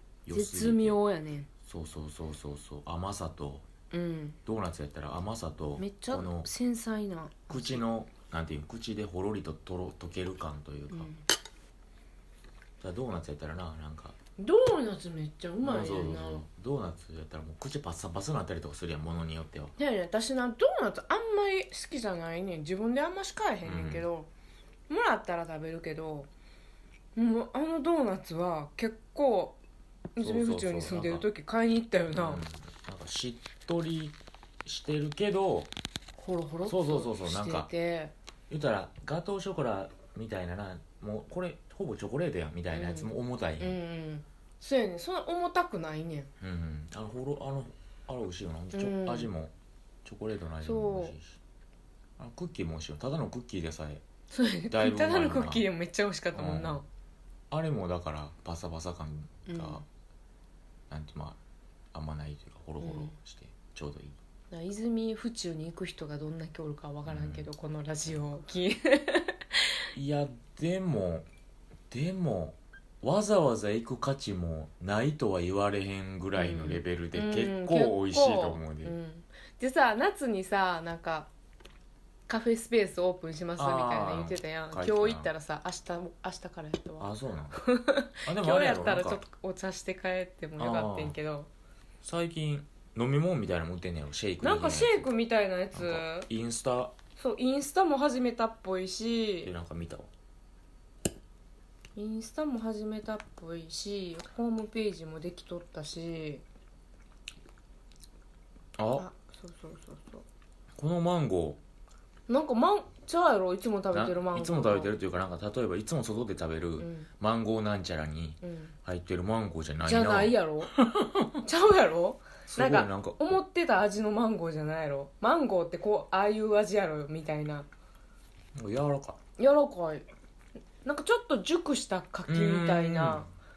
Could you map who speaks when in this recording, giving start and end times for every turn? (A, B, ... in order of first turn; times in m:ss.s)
0:00.2-0:01.0 A
0:00.3-0:01.5 B
0:01.6-0:03.6 A
0:03.9-0:04.4 B
0:04.4-0:06.5 A
0:05.8-0:07.8 B
0:07.5-0:11.1 A
0:10.9-0:11.2 B
0:12.8-0:14.2 A
0:14.4-0:16.4 B
0:15.6-0:19.7 A
0:19.8-0:24.3 B
0:23.6-0:24.0 A
0:24.9-0:26.3 B
0:27.2-0:29.6 B
0:30.2-0:32.4 B
0:30.2-0:31.2 A
0:32.1-0:35.7 A
0:36.2-0:38.1 B
0:36.6-0:37.7 A
0:38.5-0:43.8 A
0:42.7-0:46.3 B
0:46.4-0:49.5 A
0:48.7-0:49.3 B
0:50.0-0:51.4 A
0:50.6-0:51.2 B
0:52.2-0:54.0 A
0:54.3-0:56.8 B
0:54.7-0:55.6 A
0:56.3-0:56.8 A
0:57.5-0:59.8 A
0:59.4-0:59.8 B
1:00.9-1:01.4 A
1:01.9-1:04.2 A
1:02.8-1:03.1 B
1:04.5-1:09.7 B
1:07.0-1:07.5 A
1:09.9-1:11.3 A
1:11.9-1:18.9 A
1:16.3-1:21.3 B
1:22.3-1:31.5 B
1:23.6-1:25.3 A
1:27.0-1:27.6 A
1:28.2-1:29.2 A
1:30.6-1:31.2 A
1:32.0-1:35.1 A
1:34.4-1:36.3 B
1:35.7-1:36.9 A
1:37.2-1:39.5 B
1:39.4-1:40.1 A
1:42.0-1:46.4 B
1:48.8-1:49.0 A
1:48.9-1:50.2 B
1:50.8-1:51.6 A
1:52.3-1:54.9 B
1:53.9-2:01.4 A
1:56.8-1:57.1 B
1:58.4-1:58.7 B
1:59.8-2:00.7 B
2:01.4-2:07.7 B
2:02.5-2:03.4 A
2:08.5-2:09.2 A
2:09.4-2:10.0 B
2:10.8-2:13.3 B
2:12.3-2:13.3 A